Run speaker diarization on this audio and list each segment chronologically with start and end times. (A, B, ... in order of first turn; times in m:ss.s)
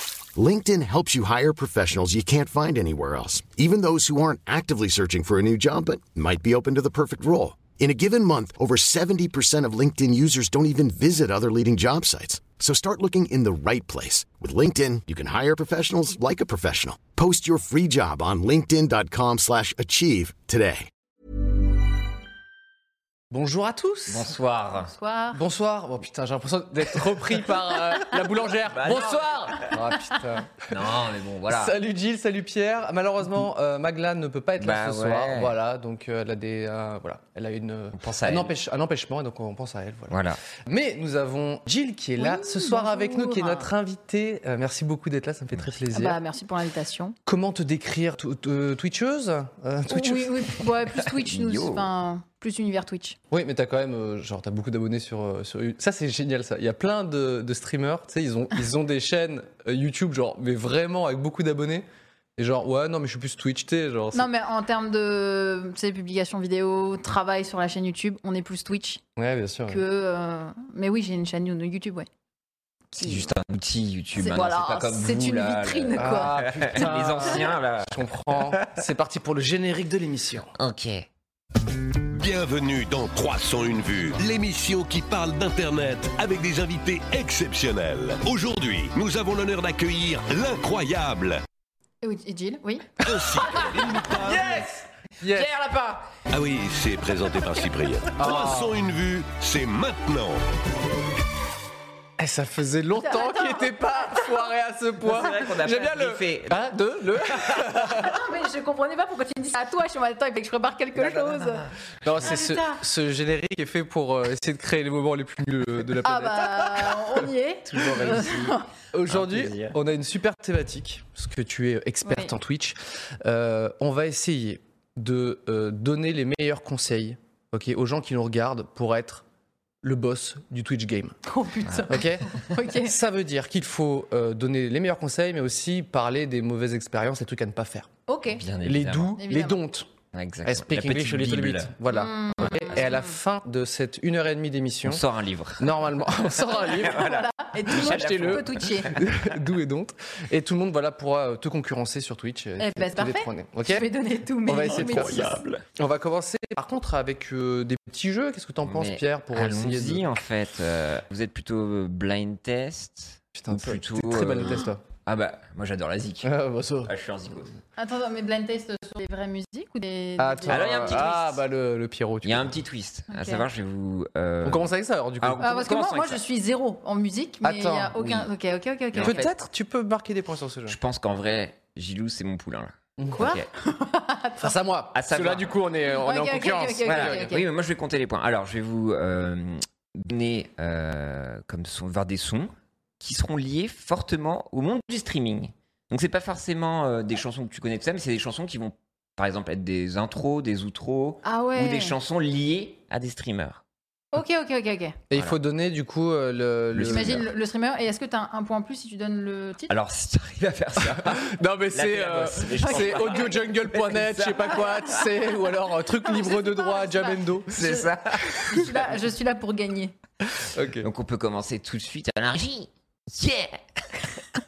0:00.4-0:20.9 A
0:23.3-0:24.3 B
0:24.1-0:24.9 C
0:24.9-0:25.4 D
0:25.3-0:30.9 B
0:28.7-0:29.8 C
0:30.7-0:31.8 C
0:31.5-0:46.2 B
0:34.6-0:35.5 C
0:38.0-0:38.5 C
0:40.1-0:40.4 C
0:42.2-0:43.7 D
0:45.9-0:47.2 D
0:47.3-0:50.6 B
0:49.9-0:53.2 D
0:51.0-0:51.9 C
0:53.3-1:04.3 B
1:04.1-1:09.0 D
1:09.2-1:09.8 B
1:09.7-1:12.1 D
1:12.9-1:13.3 D
1:13.0-1:18.7 C
1:14.2-1:16.4 D
1:16.0-1:20.5 B
1:20.6-1:21.1 C
1:22.1-1:31.4 E
1:32.0-1:32.9 D
1:33.0-1:34.5 E
1:34.2-1:35.5 B
1:34.3-1:34.7 C
1:35.2-1:36.1 C
1:36.3-1:40.4 E
1:38.2-1:38.8 B
1:42.2-1:48.2 B
1:43.0-1:44.5 D
1:45.0-1:46.6 C
1:47.2-1:47.7 C
1:47.8-1:51.6 D
1:51.0-1:52.3 C
1:52.0-1:56.9 B
1:52.2-1:52.8 D
1:56.0-1:58.6 D
1:57.7-1:59.8 C
1:58.9-2:09.2 B
2:02.1-2:02.3 D
2:09.8-2:11.2 B
2:11.3-2:13.0 D
2:11.9-2:17.9 B
2:18.1-2:18.4 D
2:18.4-2:19.2 C
2:18.6-2:19.9 B
2:19.2-2:19.6 D
2:20.1-2:21.7 C
2:20.4-2:25.0 B
2:21.9-2:23.1 D
2:24.9-2:25.8 C
2:25.6-2:27.1 B
2:26.4-2:29.0 C
2:26.7-2:29.0 D
2:27.7-2:33.9 B
2:32.6-2:35.4 D
2:34.4-2:40.0 B
2:34.6-2:35.6 C
2:38.6-2:46.3 C
2:43.4-2:44.8 B
2:46.2-2:46.9 B
2:46.8-2:47.6 C
2:47.8-2:51.1 D
2:50.2-2:52.6 B
2:50.5-2:51.4 C
2:52.2-2:56.2 C
2:53.1-2:53.4 D
2:54.4-2:55.5 B
2:55.4-2:59.3 D
2:57.4-2:58.0 B
2:58.0-2:58.3 C
2:58.9-2:59.3 C
2:59.0-3:00.8 B
3:00.7-3:03.5 C
3:03.0-3:03.3 B
3:03.2-3:04.6 D
3:04.4-3:07.3 B
3:04.9-3:05.5 C
3:05.9-3:07.4 D
3:06.8-3:23.6 C
3:21.2-3:21.9 D
3:24.1-3:25.0 D
3:25.1-3:27.3 B
3:25.1-3:25.4 C
3:26.7-3:27.3 C
3:26.9-3:29.8 D
3:29.7-3:35.0 C
3:30.8-3:37.5 B
3:32.6-3:33.4 D
3:34.5-3:35.4 D
3:35.9-3:37.9 D
3:37.5-3:38.9 C
3:38.5-3:39.9 D
3:40.4-3:40.9 B
3:40.8-3:44.2 C